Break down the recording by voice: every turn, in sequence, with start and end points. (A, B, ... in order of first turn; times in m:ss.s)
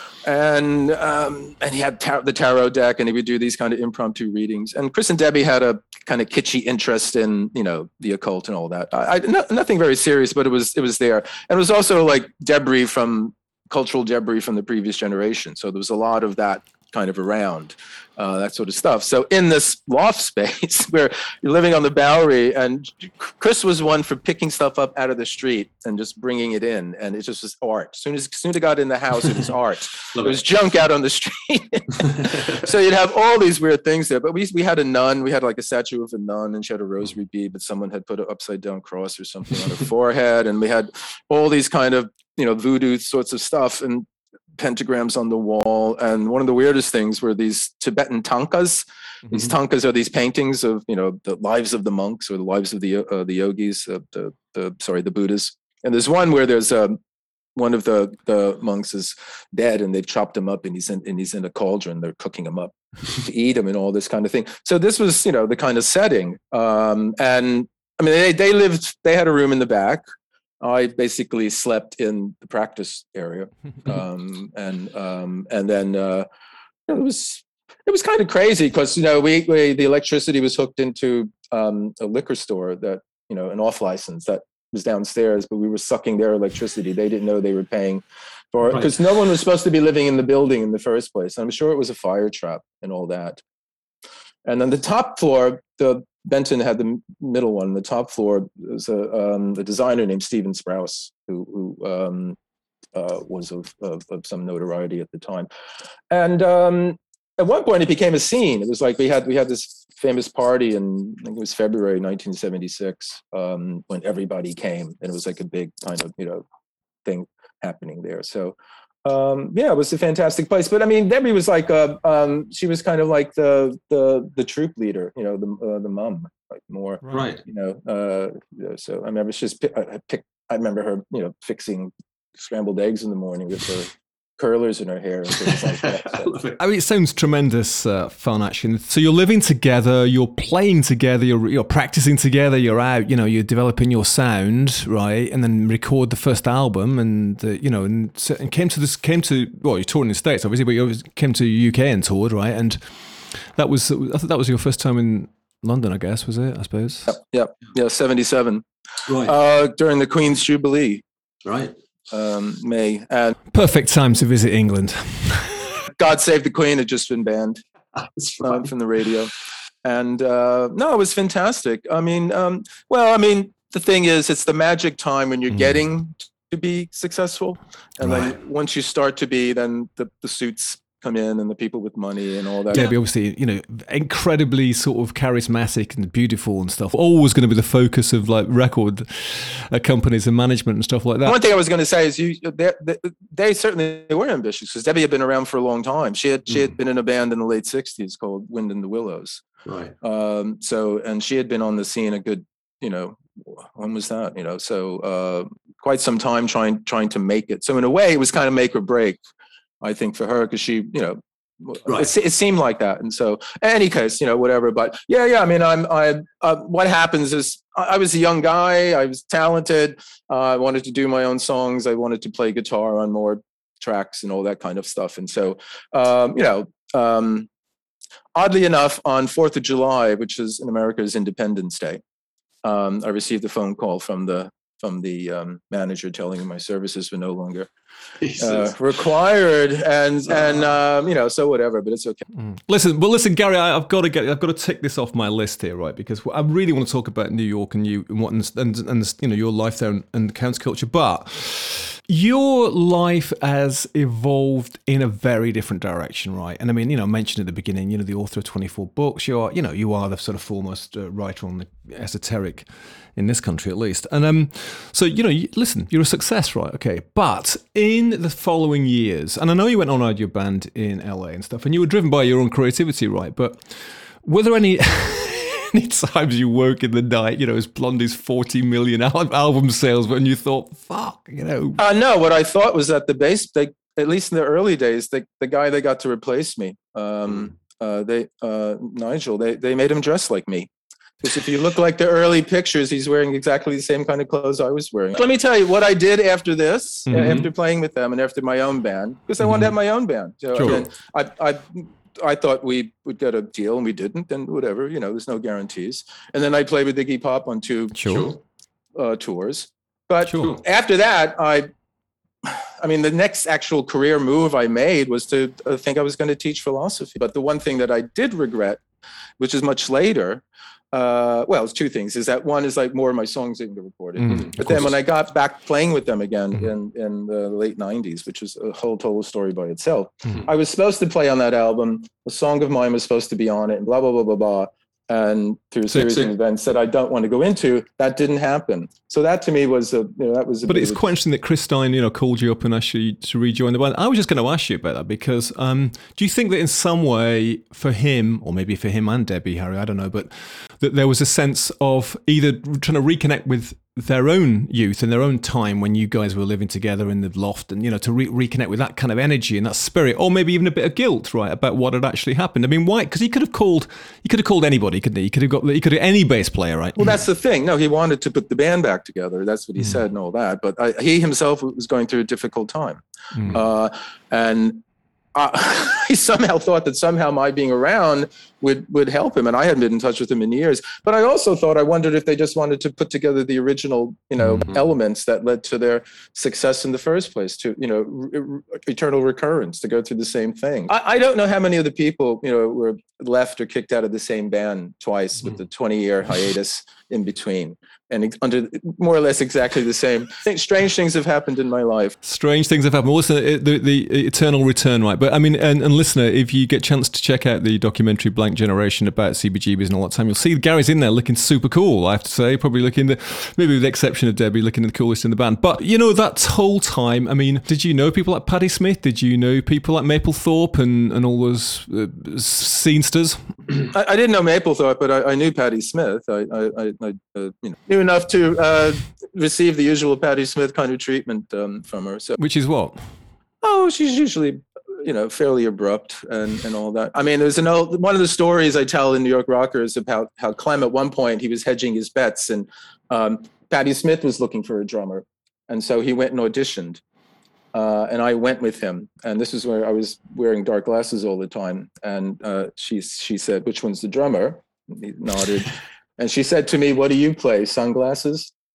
0:00.2-0:44.0 A
0:44.6-0:57.0 A
0:57.6-1:10.0 A
1:10.6-1:16.2 A
1:16.9-1:33.4 A
1:28.6-1:28.9 B
1:34.4-1:42.4 A
1:42.9-1:45.5 A
1:46.1-1:56.4 A
1:57.0-2:16.3 A
2:07.1-2:07.4 B
2:15.7-2:16.6 B
2:16.6-2:37.2 C
2:37.1-2:38.6 A
2:39.0-2:39.3 B
2:39.2-2:41.0 A
2:41.4-2:41.7 B
2:42.1-2:43.4 A
2:43.5-2:45.8 C
2:46.0-2:47.6 A
2:48.0-2:48.7 B
2:48.4-2:49.3 A
2:49.8-3:02.9 A
3:02.7-3:11.4 C
3:11.2-3:19.4 A
3:19.6-3:19.9 B
3:20.0-3:29.2 A
3:29.8-3:47.5 A
3:48.3-3:52.0 A
3:52.6-3:57.7 A
3:58.2-3:58.7 B
3:58.3-4:02.2 A
4:02.4-4:41.8 C
4:41.8-4:50.7 A
4:51.2-5:08.3 A
4:57.1-4:57.5 B
5:00.5-5:00.9 C
5:07.9-5:08.3 C
5:08.0-5:08.4 B
5:08.9-5:11.7 A
5:10.3-5:10.6 B
5:12.4-5:18.8 A
5:19.4-5:41.1 A
5:24.2-5:24.8 C
5:24.2-5:24.5 B
5:40.6-6:07.1 C
6:07.0-6:14.8 A
6:15.3-6:42.2 A
6:42.2-7:03.5 C
7:03.9-7:12.4 A
7:12.4-7:13.0 C
7:13.6-7:27.0 A
7:27.7-7:38.5 A